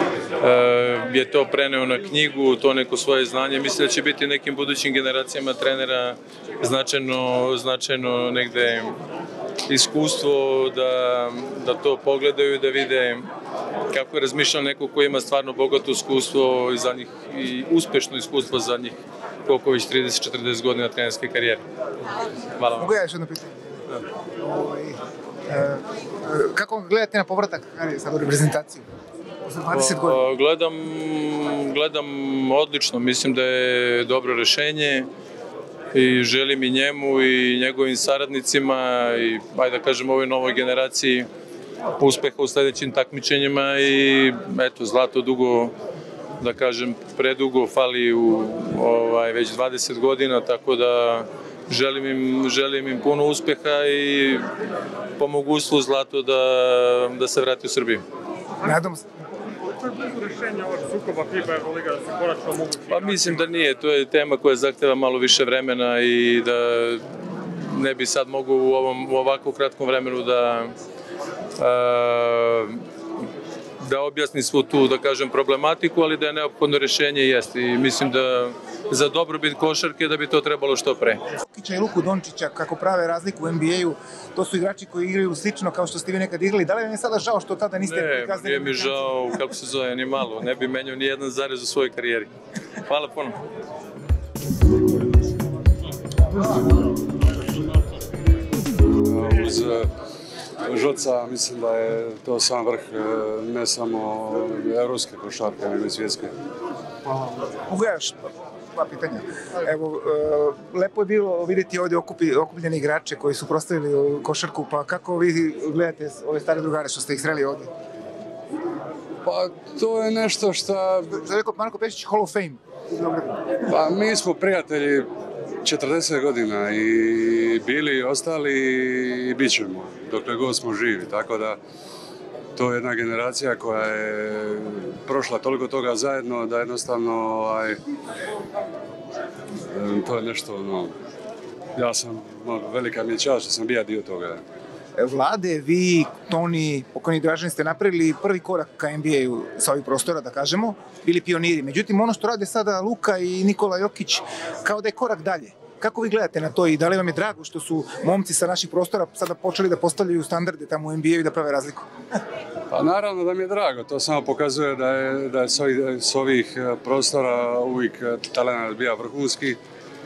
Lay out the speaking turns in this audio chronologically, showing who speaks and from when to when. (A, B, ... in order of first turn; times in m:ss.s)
0:00.4-0:08.9 A
0:09.7-0:13.2 A
0:13.9-0:21.6 A
0:22.6-0:22.9 A
0:22.8-0:23.8 B
0:24.4-0:28.8 B
0:29.5-0:30.2 B
0:29.7-0:35.1 A
0:35.9-0:41.3 A
0:42.0-0:45.7 A
0:46.4-0:54.5 A
0:55.2-0:58.0 A
0:58.6-0:59.0 B
0:59.8-1:02.8 C
1:02.8-1:10.7 A
1:11.6-1:12.8 A
1:13.8-1:21.2 A
1:21.4-1:28.9 B
1:27.8-1:32.3 A
1:32.8-1:33.4 A
1:39.0-1:39.9 D
1:40.6-1:46.3 D
1:47.5-1:48.2 B
1:48.7-1:57.7 B
1:59.2-2:01.2 D
2:01.1-2:03.5 B
2:03.6-2:05.1 D
2:05.6-2:11.6 D
2:12.6-2:17.8 D
2:19.7-2:20.9 D
2:21.8-2:24.4 D
2:25.0-2:41.8 B
2:42.7-2:49.6 D